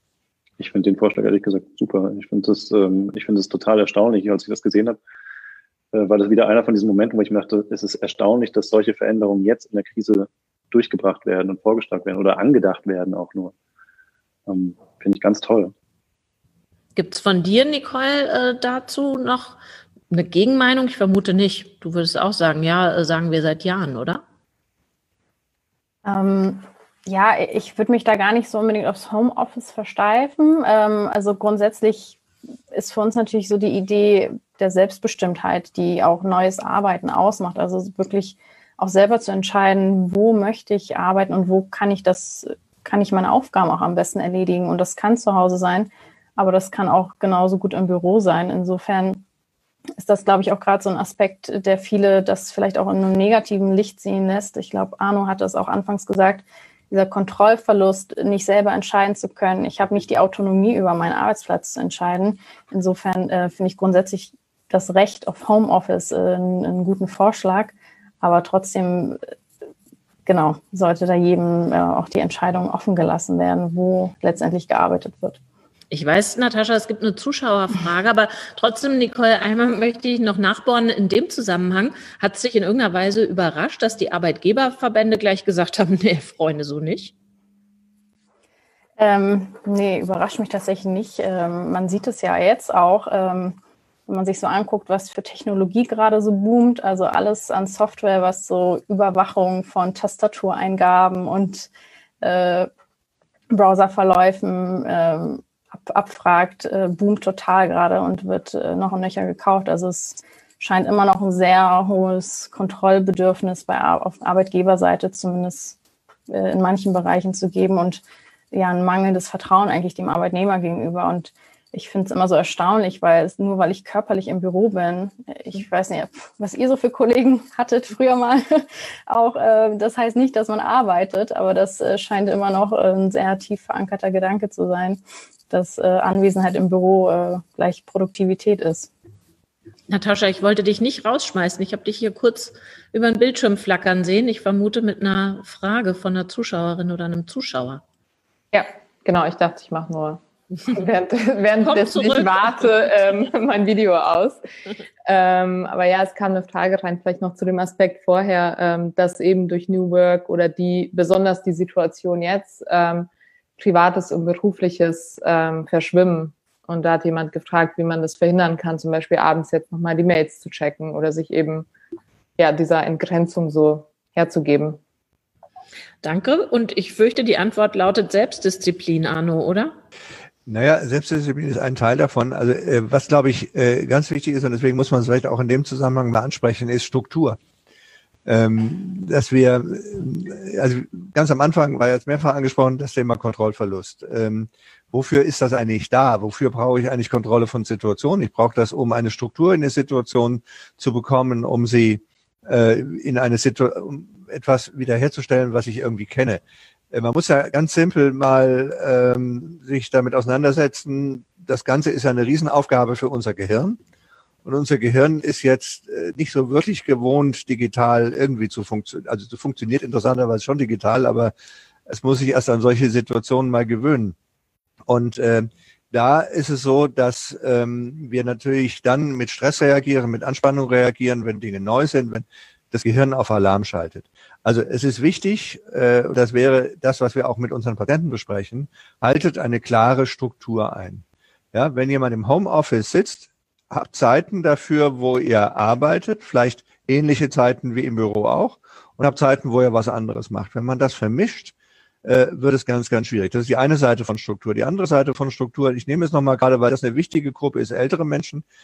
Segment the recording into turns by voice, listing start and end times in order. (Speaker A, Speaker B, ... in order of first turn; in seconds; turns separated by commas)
Speaker A: 0.6-5.0, Speaker A: 5.9-13.5, Speaker A: 14.5-15.7, Speaker B: 16.9-19.6, Speaker B: 20.1-24.2, Speaker C: 26.0-32.2, Speaker C: 32.7-49.2, Speaker C: 50.0-69.2, Speaker C: 70.2-75.4, Speaker B: 75.9-87.1, Speaker C: 89.0-93.5, Speaker C: 94.1-101.7, Speaker C: 102.2-102.7, Speaker C: 103.5-115.8, Speaker C: 116.3-138.9, Speaker B: 139.9-147.8, Speaker D: 148.5-154.4, Speaker B: 151.6-152.7, Speaker D: 155.0-171.7, Speaker D: 172.4-174.8, Speaker B: 176.0-179.7, Speaker E: 180.4-187.4, Speaker E: 188.2-213.8, Speaker E: 214.4-221.3, Speaker E: 221.9-224.2, Speaker E: 224.9-251.5, Speaker E: 252.0-258.4